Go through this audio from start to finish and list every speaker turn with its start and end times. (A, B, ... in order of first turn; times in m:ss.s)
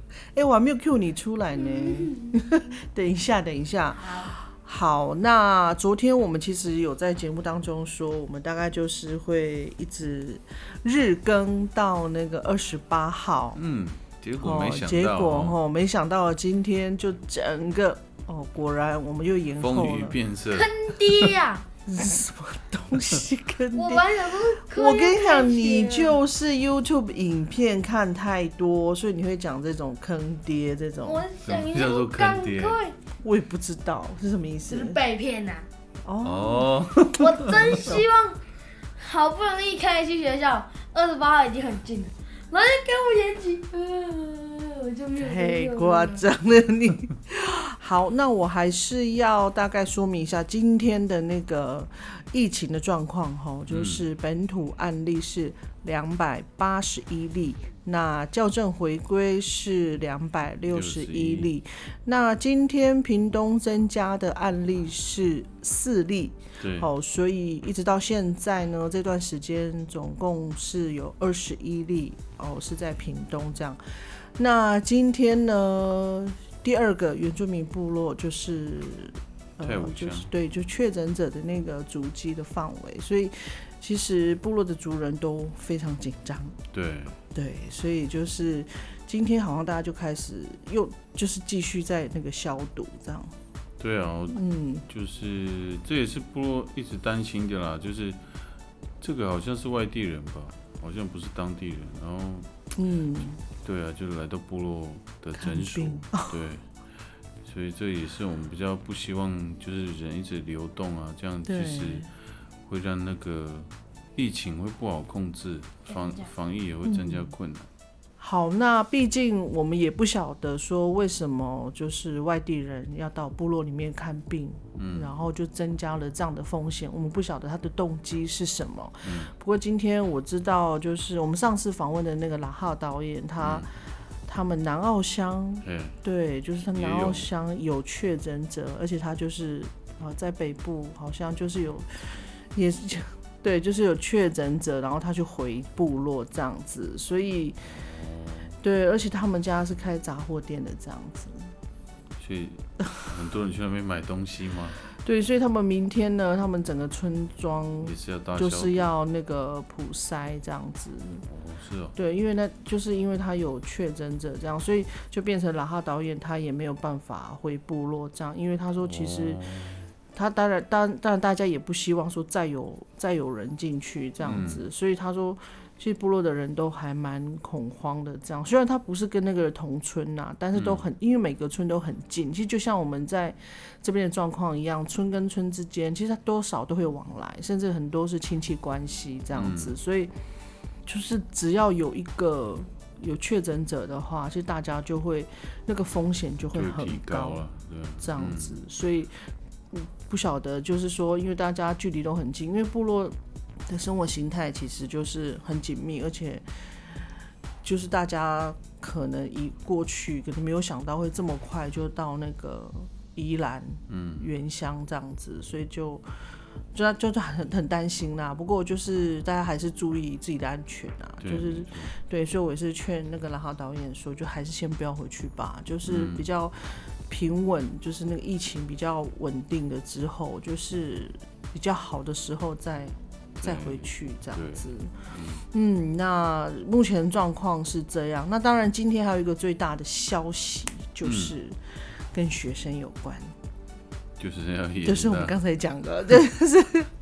0:00.3-0:13.6 A
0:01.7-0:02.3 B
0:04.0-0:04.4 B
0:13.6-0:15.6 C
0:14.4-0:20.2 A
0:19.6-0:21.3 C
0:20.5-0:21.6 B
0:21.8-0:31.2 A
0:23.7-0:26.2 B
0:31.0-0:32.9 B
0:31.4-0:32.8 C
0:33.2-0:35.0 A
0:34.7-0:35.7 B
0:36.0-0:38.0 A
0:36.2-0:37.5 C
0:37.1-0:38.4 B
0:39.0-0:46.2 B
0:45.2-1:26.6 A
0:53.7-0:54.1 C
1:00.7-1:01.5 C
1:06.6-1:06.9 C
1:19.6-1:20.3 C
1:26.7-1:27.2 C
1:27.3-1:33.3 A
1:33.8-1:38.2 C
1:34.3-1:34.8 A
1:39.0-1:42.5 C
1:42.8-1:43.4 A
1:43.6-1:46.7 C
1:45.3-1:46.3 A
1:47.4-1:52.1 C
1:51.4-1:52.1 A
1:52.6-1:57.7 C
1:55.9-1:56.3 B
1:56.8-1:57.3 A
1:58.2-2:27.7 A
2:04.8-2:05.1 C
2:09.0-2:09.3 C
2:13.4-2:13.7 C
2:15.6-2:16.0 C
2:16.7-2:17.3 C
2:27.6-2:28.6 C
2:28.6-2:31.5 A
2:32.2-2:34.8 C
2:34.9-2:41.3 A
2:37.8-2:38.9 C
2:41.3-2:41.9 C
2:41.9-2:49.4 A
2:48.8-2:49.9 C
2:50.1-3:10.2 A
2:54.2-2:54.7 C
3:00.5-3:00.8 C
3:09.3-3:09.7 C
3:10.8-3:17.5 A
3:16.5-3:18.6 C
3:18.0-3:27.0 A
3:27.6-4:03.4 A
3:33.9-3:34.3 C
3:41.2-3:41.9 C
3:45.8-3:46.2 C
3:53.4-3:55.4 C
4:01.0-4:01.3 C
4:04.2-4:05.4 C
4:04.8-4:06.9 A